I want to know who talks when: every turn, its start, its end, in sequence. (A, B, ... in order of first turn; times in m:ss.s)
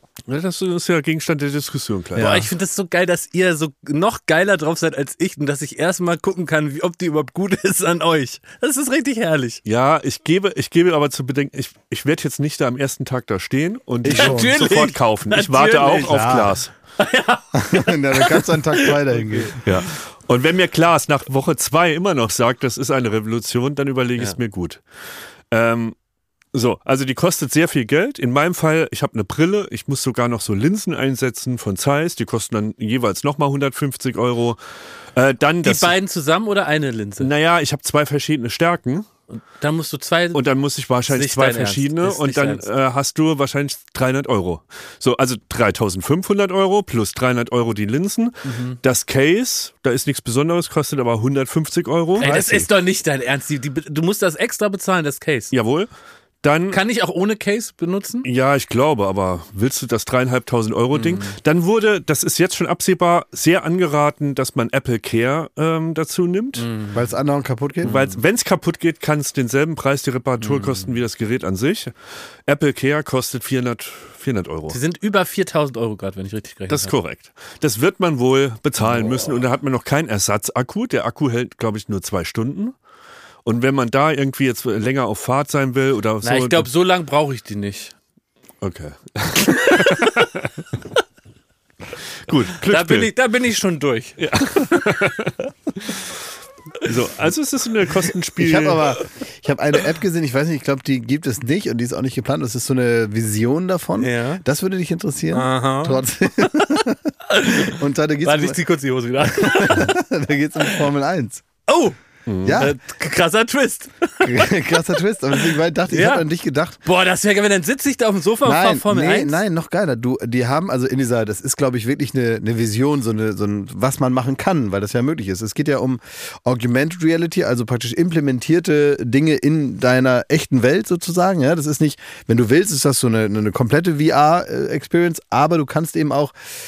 0:00.3-0:02.5 A
0:02.2-0:09.6 B
0:02.2-0:02.4 C
0:09.6-0:16.7 A
0:14.0-0:14.5 C
0:14.1-0:16.3 B
0:16.0-0:16.6 C
0:17.0-0:19.6 B
0:17.5-0:19.6 C
0:19.6-0:24.8 A
0:25.5-0:25.9 A
0:26.5-0:34.6 A
0:35.1-0:35.9 A
0:35.6-0:37.3 B
0:37.2-0:39.1 A
0:39.3-0:40.4 B
0:40.3-0:52.7 A
0:41.1-0:42.6 B
0:48.4-0:48.8 B
0:52.2-0:55.5 B
0:55.5-0:55.9 A
0:56.4-0:56.8 A
0:56.7-0:58.2 B
0:58.2-1:06.7 A
1:00.9-1:01.3 B
1:06.6-1:07.0 B
1:06.9-1:08.0 C
1:07.8-1:11.9 A
1:07.9-1:08.1 B
1:10.4-1:10.8 B
1:12.5-1:14.8 A
1:14.7-1:16.9 B
1:16.7-1:22.7 A
1:23.4-1:26.7 A
1:26.2-1:27.9 B
1:28.6-1:30.5 A
1:29.5-1:30.1 B
1:32.2-1:33.1 A
1:32.6-1:34.8 B
1:34.2-1:36.0 A
1:36.8-1:39.0 A
1:38.4-1:48.6 C
1:44.0-1:44.4 B
1:45.3-1:46.0 B
1:47.3-1:50.0 B
1:49.2-1:51.4 C
1:51.7-1:52.0 B
1:52.3-1:52.6 A
1:52.4-1:52.7 C
1:52.5-1:54.7 B
1:54.2-1:56.8 C
1:55.9-1:56.2 B
1:56.8-1:59.4 B
1:58.4-2:16.3 C